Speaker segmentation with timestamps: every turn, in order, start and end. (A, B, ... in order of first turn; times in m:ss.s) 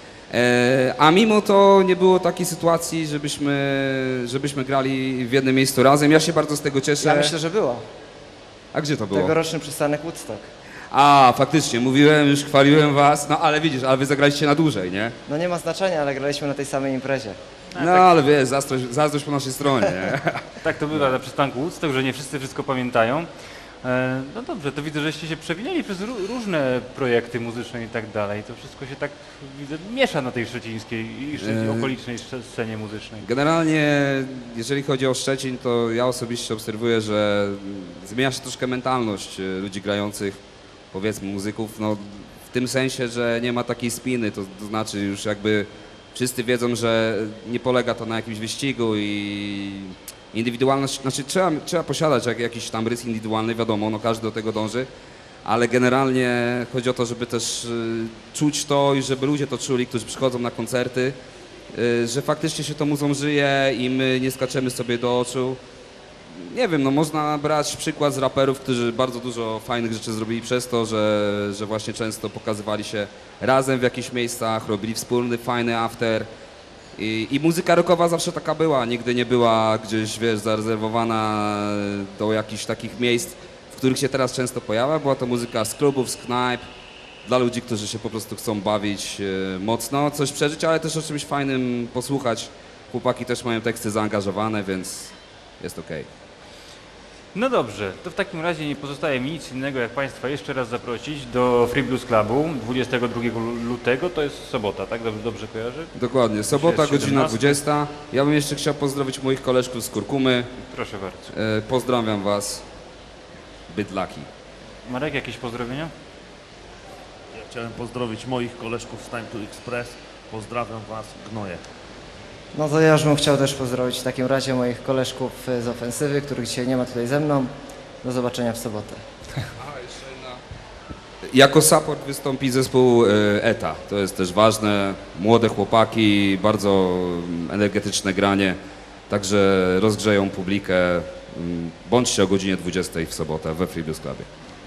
0:00.3-0:07.3 A
0:07.0-0:07.8 B
0:08.7-0:09.4 A
0:09.1-0:10.4 B
0:10.9-0:15.2 A
0:15.2-0:17.4 B
0:17.7-0:18.2 C
0:17.8-0:20.5 A
0:20.6-0:23.3 C
0:23.8-0:33.2 C
0:31.4-0:31.9 A
0:33.2-0:40.4 A
0:40.9-0:54.9 A
0:55.4-1:01.2 A
1:01.7-1:05.6 A
1:06.3-1:16.3 A
1:17.0-1:26.6 A
1:27.2-1:36.1 A
1:37.3-1:45.9 C
1:45.9-1:50.5 A
1:46.5-1:47.6 C
1:50.7-1:51.3 C
1:51.3-1:52.6 A
1:53.7-1:54.3 A
1:54.8-1:55.9 C
1:57.3-2:01.6 D
2:02.5-2:07.5 B
2:08.0-2:09.0 B
2:09.6-2:10.4 A
2:11.3-2:18.6 A
2:19.1-2:24.2 A